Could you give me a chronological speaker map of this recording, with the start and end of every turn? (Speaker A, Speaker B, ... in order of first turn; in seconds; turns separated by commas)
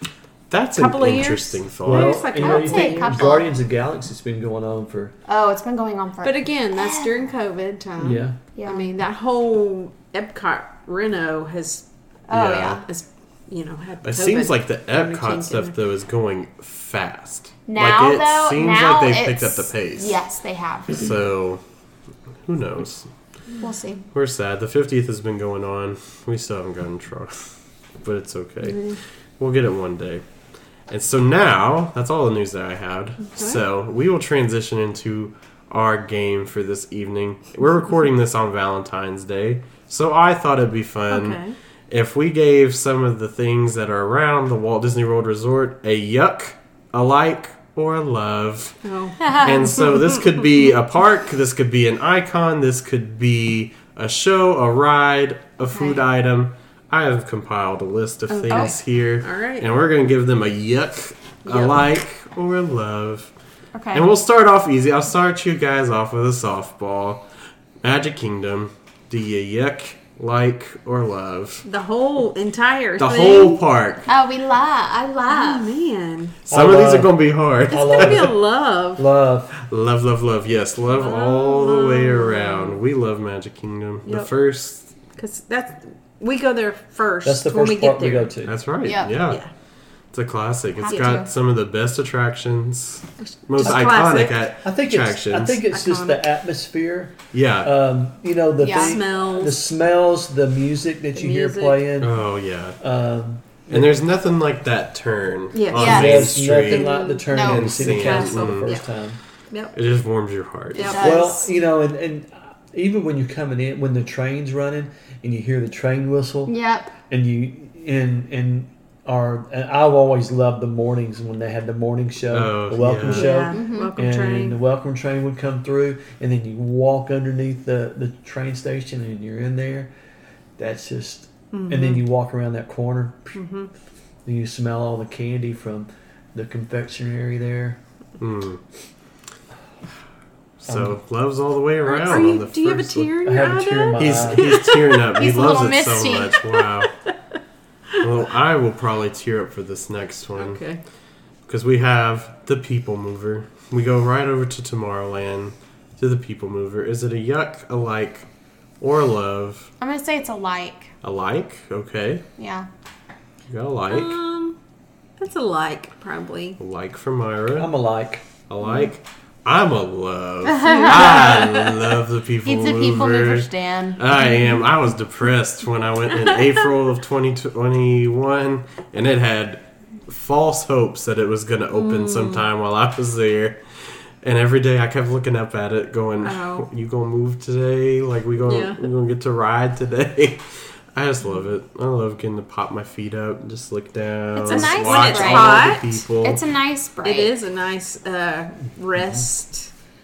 Speaker A: 0.5-2.3, Speaker B: 0.8-3.4, Speaker C: 1.9-5.1, Speaker D: 2.4-3.5, Speaker D: 5.3-7.1, Speaker B: 6.2-11.9, Speaker C: 8.0-8.4, Speaker D: 8.6-8.9, Speaker D: 12.3-12.8, Speaker A: 12.3-12.8, Speaker B: 12.8-15.8, Speaker A: 14.0-20.2, Speaker D: 17.7-21.1, Speaker A: 20.9-21.6, Speaker A: 22.5-23.1, Speaker D: 23.6-24.0, Speaker A: 24.1-27.5, Speaker A: 28.0-30.2, Speaker A: 30.9-63.3, Speaker B: 33.3-33.6, Speaker B: 41.1-41.6, Speaker B: 48.8-49.4, Speaker D: 49.2-49.7, Speaker B: 58.4-59.7, Speaker D: 58.4-58.8, Speaker B: 61.5-61.8, Speaker D: 63.7-64.1, Speaker A: 63.9-67.2, Speaker A: 67.8-71.7, Speaker B: 71.6-73.6, Speaker A: 73.0-74.1, Speaker D: 74.1-75.7, Speaker B: 75.3-76.4, Speaker C: 76.5-77.1, Speaker A: 76.5-78.3, Speaker C: 77.7-78.4, Speaker B: 77.7-79.0, Speaker C: 79.0-79.5, Speaker A: 79.6-84.9, Speaker B: 80.9-82.8, Speaker B: 85.1-88.3, Speaker C: 87.2-88.5, Speaker A: 88.5-89.4, Speaker D: 88.8-89.1, Speaker A: 90.1-95.6, Speaker D: 90.8-91.3, Speaker B: 93.2-94.4, Speaker C: 93.6-93.9, Speaker C: 94.6-102.2, Speaker B: 95.7-96.2, Speaker A: 97.3-97.7, Speaker D: 98.6-99.0, Speaker B: 98.7-99.6, Speaker B: 101.1-101.9, Speaker A: 102.0-102.8, Speaker C: 102.8-104.0, Speaker A: 103.7-108.8, Speaker B: 105.5-108.9, Speaker D: 105.7-106.2, Speaker C: 105.7-109.2, Speaker D: 107.0-107.8, Speaker B: 109.5-109.8, Speaker A: 109.7-111.0, Speaker B: 110.7-111.1, Speaker D: 110.8-111.5, Speaker C: 111.0-116.5, Speaker D: 116.5-116.9, Speaker C: 117.1-129.9, Speaker A: 122.3-123.3, Speaker B: 123.1-124.6, Speaker D: 123.2-123.9, Speaker C: 130.6-133.4, Speaker B: 131.5-132.0, Speaker B: 133.3-133.7, Speaker C: 134.3-137.8, Speaker A: 138.2-138.6, Speaker A: 140.6-143.1, Speaker C: 140.7-141.0, Speaker B: 141.8-145.0, Speaker C: 143.2-144.6, Speaker A: 144.0-146.9, Speaker D: 145.2-146.4, Speaker A: 148.0-150.6, Speaker B: 150.4-150.8, Speaker A: 151.5-158.3, Speaker A: 158.8-159.7, Speaker D: 159.8-160.9, Speaker A: 161.0-162.2, Speaker D: 162.4-162.7, Speaker A: 163.5-164.2, Speaker B: 163.9-164.6, Speaker B: 165.2-166.6, Speaker A: 166.6-167.7, Speaker C: 167.6-168.2, Speaker A: 168.5-196.4, Speaker B: 170.6-171.7, Speaker D: 170.6-171.4, Speaker D: 172.4-174.0, Speaker B: 181.7-182.5, Speaker B: 186.2-186.7, Speaker B: 188.4-188.8, Speaker D: 194.3-197.3, Speaker B: 194.5-196.0, Speaker B: 197.0-199.7